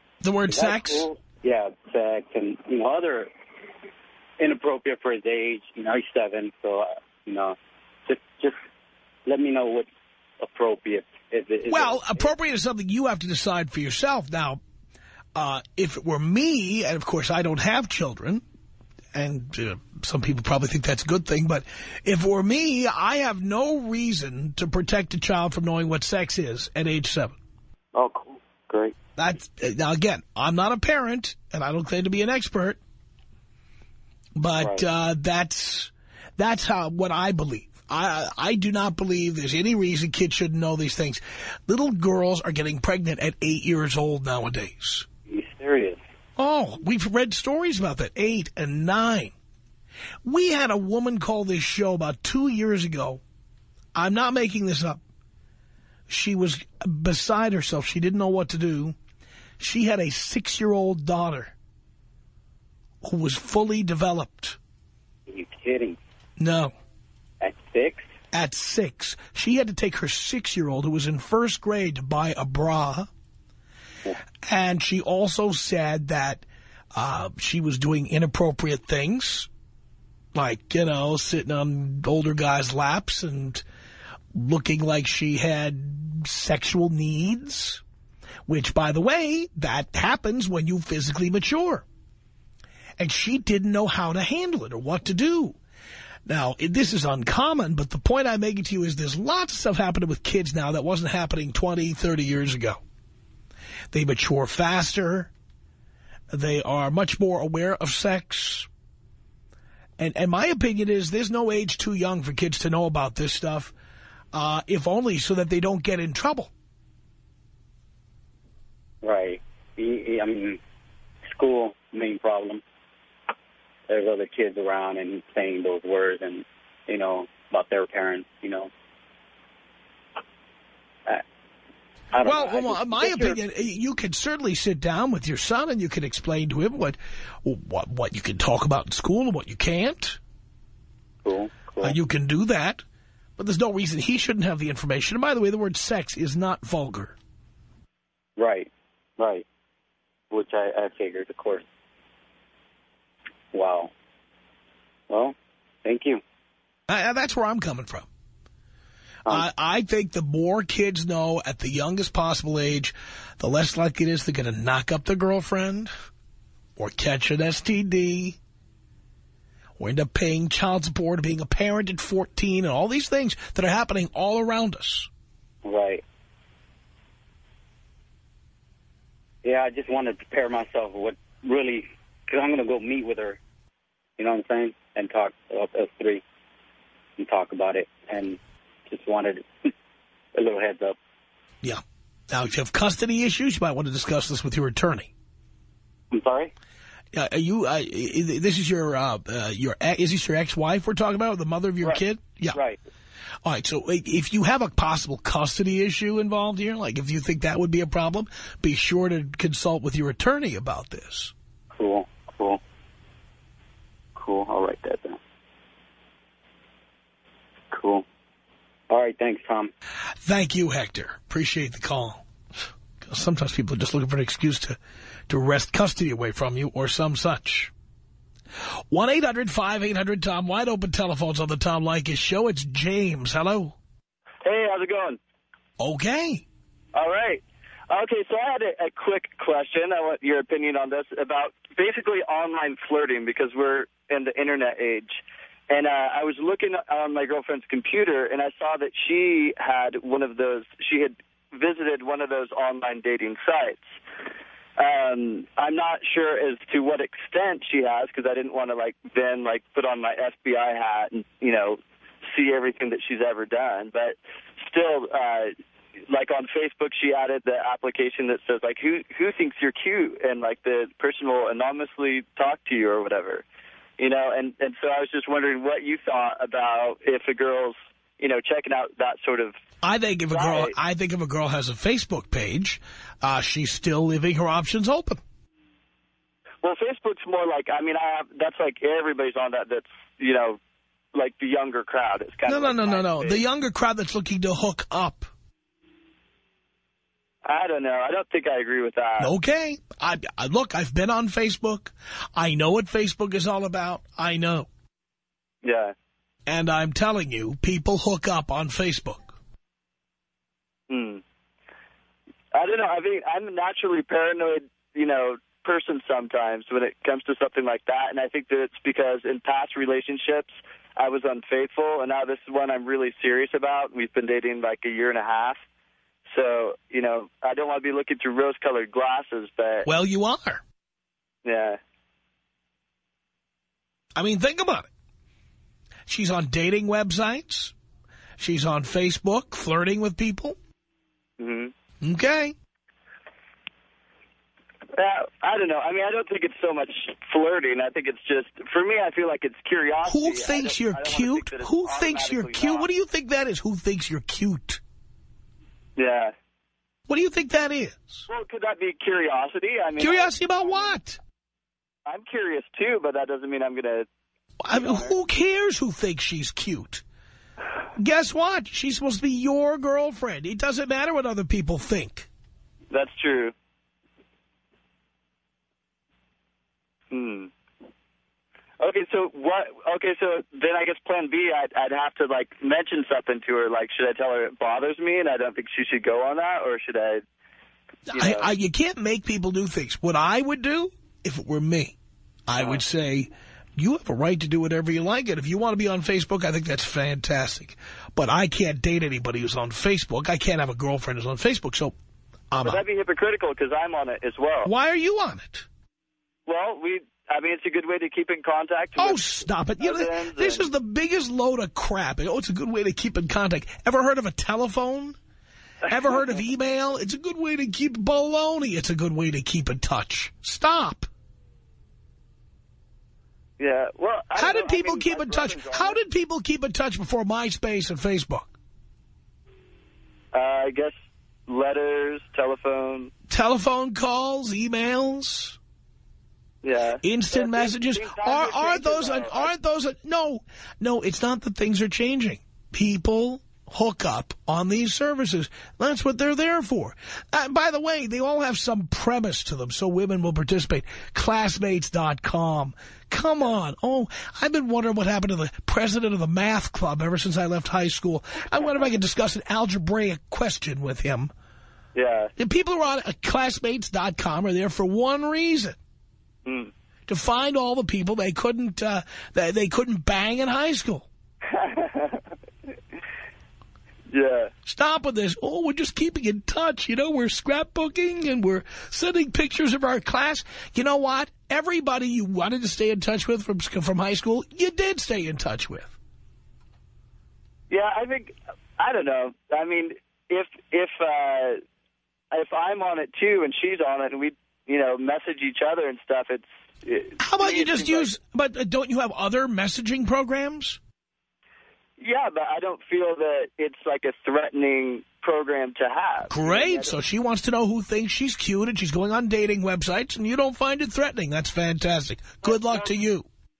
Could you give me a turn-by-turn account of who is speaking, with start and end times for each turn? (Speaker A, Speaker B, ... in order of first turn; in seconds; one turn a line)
Speaker A: 0.2-1.1
Speaker B: 0.5-3.3
Speaker B: 4.4-8.6
Speaker B: 9.2-9.9
Speaker B: 10.4-12.3
Speaker A: 11.7-14.6
Speaker A: 15.3-18.4
Speaker A: 19.1-27.4
Speaker B: 27.9-28.9
Speaker A: 29.2-32.8
Speaker A: 34.4-45.1
Speaker B: 34.6-34.8
Speaker B: 45.3-46.0
Speaker A: 46.4-49.3
Speaker A: 50.2-53.2
Speaker A: 53.9-55.0
Speaker A: 56.1-59.0
Speaker A: 59.6-61.5
Speaker A: 63.0-64.6
Speaker B: 65.3-66.0
Speaker A: 66.4-66.7
Speaker B: 67.4-68.1
Speaker A: 68.3-73.1
Speaker A: 74.4-76.4
Speaker A: 76.9-79.5
Speaker A: 80.3-83.6
Speaker A: 84.3-87.8
Speaker A: 88.5-91.8
Speaker A: 93.0-95.6
Speaker A: 96.2-102.8
Speaker A: 103.9-105.3
Speaker A: 106.3-108.7
Speaker A: 110.0-113.7
Speaker A: 114.3-116.5
Speaker B: 119.0-120.6
Speaker B: 121.3-122.6
Speaker B: 123.9-128.7
Speaker B: 132.1-133.4
Speaker A: 132.2-140.2
Speaker B: 141.2-142.0
Speaker A: 141.8-142.8
Speaker A: 143.4-147.1
Speaker B: 148.4-149.4
Speaker B: 150.3-151.6
Speaker B: 153.5-153.9
Speaker B: 155.1-156.2
Speaker A: 156.9-158.1
Speaker A: 159.3-165.9
Speaker A: 166.8-168.4
Speaker A: 169.8-175.1
Speaker B: 175.6-176.0
Speaker B: 179.4-183.4
Speaker B: 184.2-186.2
Speaker B: 187.2-189.7
Speaker B: 190.3-191.0
Speaker A: 191.6-195.1
Speaker B: 196.1-196.5
Speaker A: 197.1-202.6
Speaker B: 201.8-202.8
Speaker A: 203.4-211.3
Speaker B: 211.7-212.6
Speaker B: 214.1-215.2
Speaker B: 217.7-218.0
Speaker B: 218.9-219.7
Speaker A: 220.2-222.2
Speaker A: 223.0-224.8
Speaker A: 225.3-227.7
Speaker A: 228.9-233.8
Speaker C: 234.4-235.2
Speaker A: 235.8-236.4
Speaker C: 236.9-253.9
Speaker C: 254.8-265.5
Speaker C: 266.1-273.4
Speaker C: 274.0-279.6
Speaker A: 279.8-285.2
Speaker C: 280.3-280.7
Speaker C: 286.6-290.6
Speaker C: 291.1-293.4
Speaker A: 292.4-295.3
Speaker C: 297.4-299.3
Speaker A: 299.2-304.7
Speaker C: 305.6-305.9
Speaker A: 306.4-309.4
Speaker C: 310.9-311.2
Speaker C: 312.5-325.6
Speaker C: 326.3-329.9
Speaker A: 329.8-330.6
Speaker C: 331.4-331.8
Speaker A: 334.1-334.9
Speaker A: 336.1-337.7
Speaker A: 338.4-340.6
Speaker C: 341.4-341.7
Speaker A: 342.0-342.5
Speaker C: 344.9-352.9
Speaker A: 350.0-354.8
Speaker C: 356.0-356.3
Speaker A: 357.1-358.2
Speaker C: 358.3-360.9
Speaker A: 360.0-361.2
Speaker C: 362.1-364.1
Speaker A: 364.6-367.0
Speaker C: 364.7-365.1
Speaker A: 367.9-372.3
Speaker C: 372.9-373.5
Speaker C: 377.1-377.5
Speaker C: 378.8-387.2
Speaker A: 388.1-391.9
Speaker C: 388.1-388.5
Speaker A: 392.5-401.9
Speaker C: 392.5-392.8
Speaker A: 402.5-402.8
Speaker C: 402.6-404.7
Speaker A: 404.6-405.6
Speaker C: 406.5-409.2
Speaker A: 409.0-415.2
Speaker C: 409.8-410.7
Speaker C: 415.9-416.4
Speaker A: 415.9-421.1
Speaker C: 423.6-426.0
Speaker A: 424.4-428.5
Speaker C: 430.3-430.9
Speaker C: 431.5-433.1
Speaker A: 433.3-435.6
Speaker C: 436.6-439.5
Speaker A: 437.0-461.3
Speaker C: 461.9-462.3
Speaker A: 462.4-465.8
Speaker C: 466.4-466.7
Speaker A: 467.1-471.1
Speaker C: 471.5-472.3
Speaker C: 474.1-474.5
Speaker A: 474.6-485.9
Speaker C: 487.7-491.6
Speaker C: 492.3-498.1
Speaker A: 497.2-500.8
Speaker C: 502.0-506.9
Speaker A: 506.3-513.3
Speaker C: 512.4-512.9